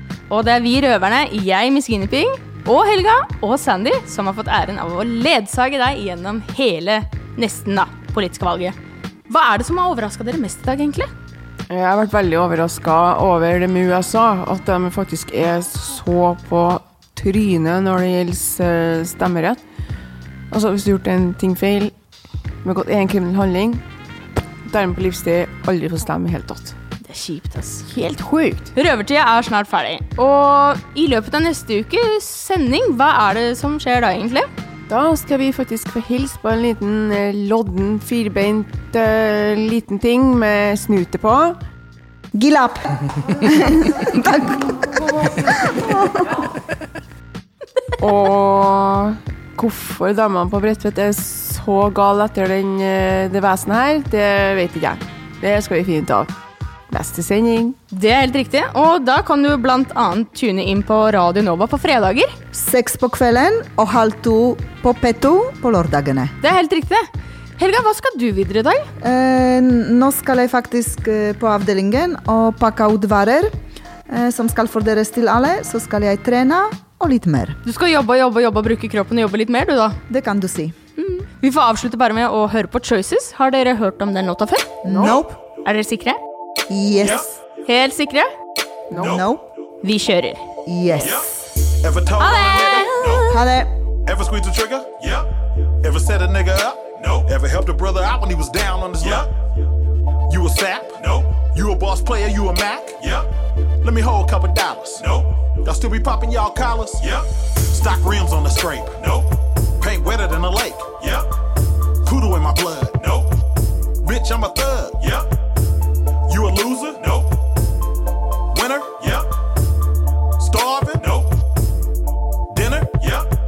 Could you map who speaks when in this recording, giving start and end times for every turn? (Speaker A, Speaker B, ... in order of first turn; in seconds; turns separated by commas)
Speaker A: 0.3-8.8, Speaker A: 9.3-11.1, Speaker B: 11.7-19.6, Speaker B: 20.5-21.9, Speaker B: 22.6-23.8, Speaker B: 24.6-26.7, Speaker A: 27.1-27.9, Speaker B: 27.8-28.7, Speaker A: 28.7-34.5, Speaker B: 34.9-41.6, Speaker C: 42.3-44.6, Speaker C: 45.4-45.9, Speaker B: 48.0-56.3, Speaker B: 56.9-57.8, Speaker A: 57.9-62.3, Speaker C: 62.5-66.3, Speaker A: 66.4-67.1, Speaker A: 67.6-68.9, Speaker C: 69.0-73.5, Speaker C: 74.1-77.6, Speaker A: 77.6-80.0, Speaker C: 80.1-80.7, Speaker A: 81.0-86.2, Speaker C: 84.8-85.3, Speaker C: 86.7-87.3, Speaker A: 87.6-88.3, Speaker C: 89.0-89.4, Speaker A: 89.8-90.4, Speaker C: 90.7-91.4, Speaker D: 91.0-91.2, Speaker D: 91.8-93.2, Speaker C: 93.3-93.7, Speaker D: 94.1-95.2, Speaker D: 95.8-99.3, Speaker D: 100.3-103.2, Speaker D: 103.8-109.3, Speaker D: 109.8-111.2, Speaker D: 112.0-113.3, Speaker D: 114.0-115.2, Speaker D: 116.3-117.3, Speaker D: 118.5-119.2, Speaker D: 120.4-121.3, Speaker D: 122.5-123.2